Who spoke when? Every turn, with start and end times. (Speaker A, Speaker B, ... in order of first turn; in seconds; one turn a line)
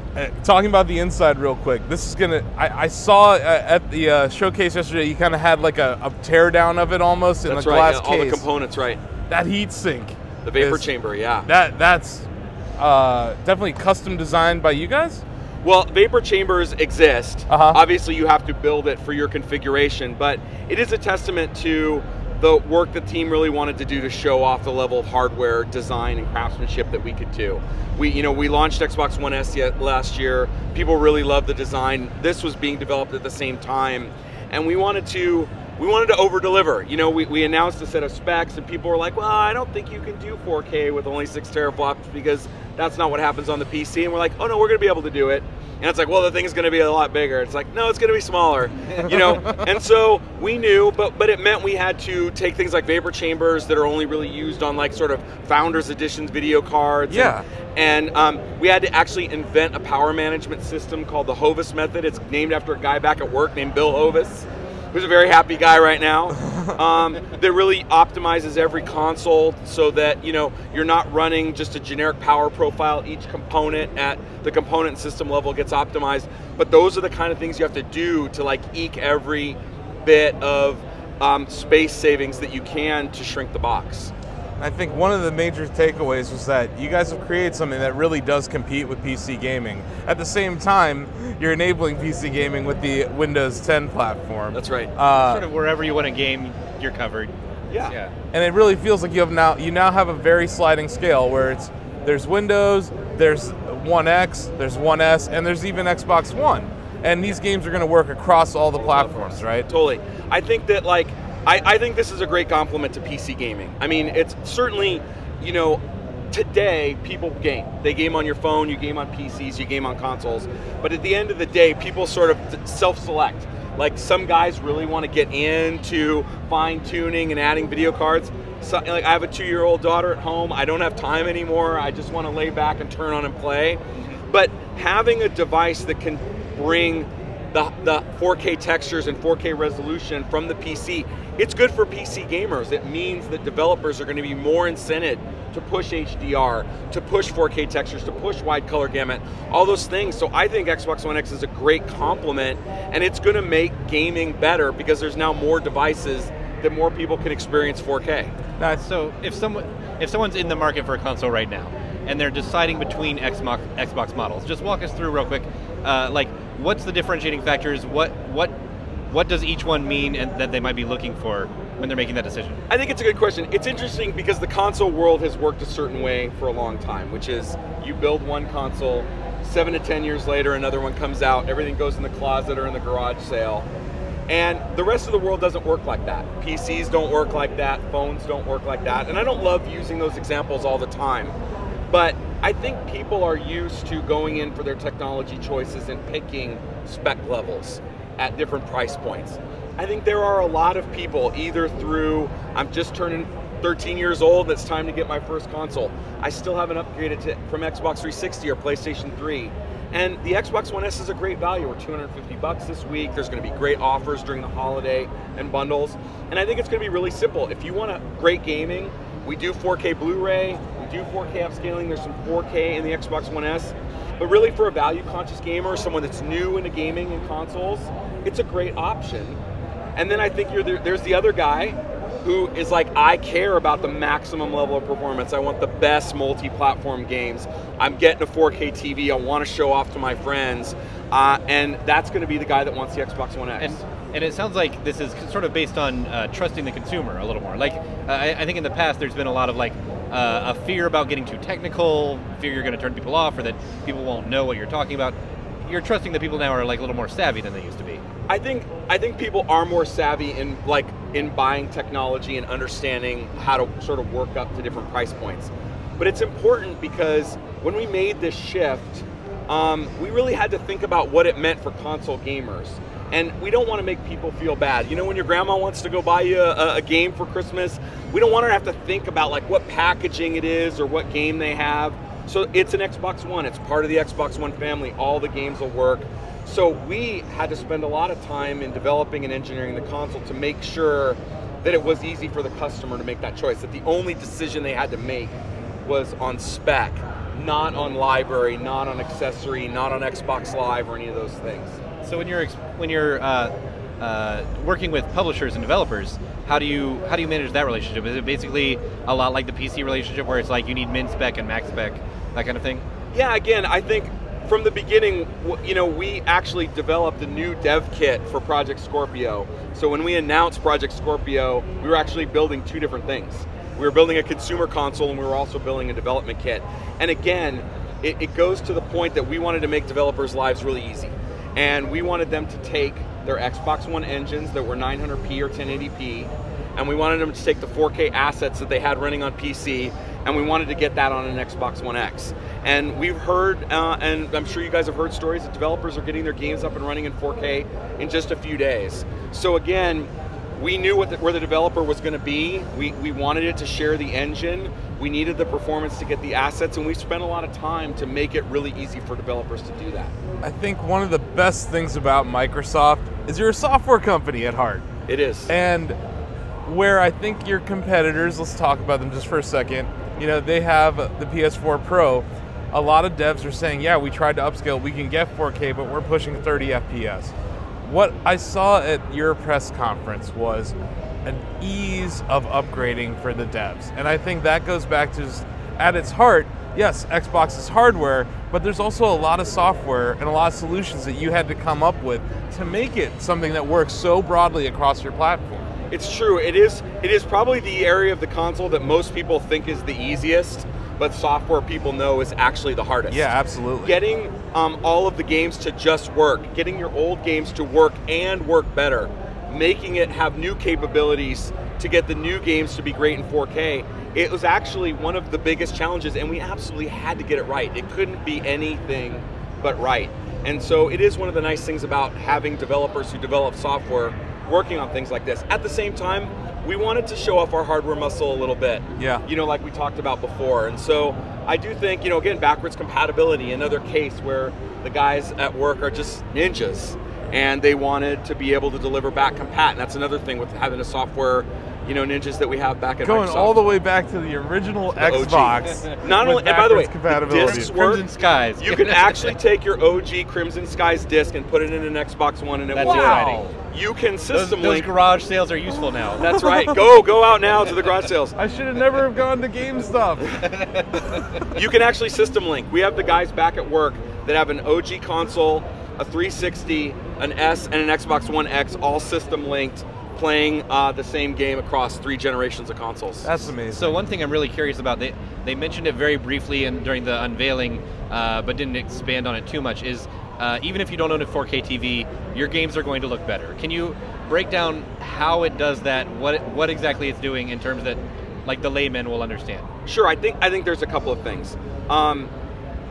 Speaker A: 0.1-8.5
Speaker B: 7.5-9.0
Speaker A: 9.3-10.9
Speaker B: 10.4-11.5
Speaker A: 11.4-15.2
Speaker B: 15.6-84.1
Speaker A: 17.5-17.8
Speaker A: 49.3-49.6
Speaker A: 57.1-57.5
Speaker A: 66.4-66.8
Speaker A: 84.6-95.4
Speaker B: 94.5-94.9
Speaker C: 95.1-97.3
Speaker B: 97.7-98.0
Speaker C: 97.8-98.1
Speaker A: 98.3-109.7
Speaker B: 108.8-115.8
Speaker B: 116.3-158.3
Speaker C: 158.8-168.5
Speaker C: 169.1-172.6
Speaker B: 172.7-183.7
Speaker B: 184.3-191.4
Speaker B: 191.9-229.4
Speaker B: 230.0-243.8
Speaker C: 243.6-258.0
Speaker B: 258.3-301.8
Speaker C: 302.0-312.9
Speaker B: 313.1-360.1
Speaker A: 360.4-364.9
Speaker B: 365.1-365.5
Speaker A: 365.5-366.0
Speaker A: 366.6-395.7
Speaker B: 395.9-403.3
Speaker A: 403.1-404.0
Speaker B: 403.8-443.6
Speaker A: 429.0-429.2
Speaker A: 443.0-447.7
Speaker B: 445.0-448.0
Speaker C: 447.3-449.4
Speaker B: 448.6-454.9
Speaker C: 452.7-453.5
Speaker A: 452.8-453.5
Speaker C: 454.3-456.3
Speaker B: 456.2-458.4
Speaker A: 456.4-456.6
Speaker A: 458.4-460.4
Speaker C: 460.4-461.2
Speaker B: 461.5-473.3
Speaker A: 473.2-474.0
Speaker C: 473.7-489.7
Speaker B: 489.9-492.3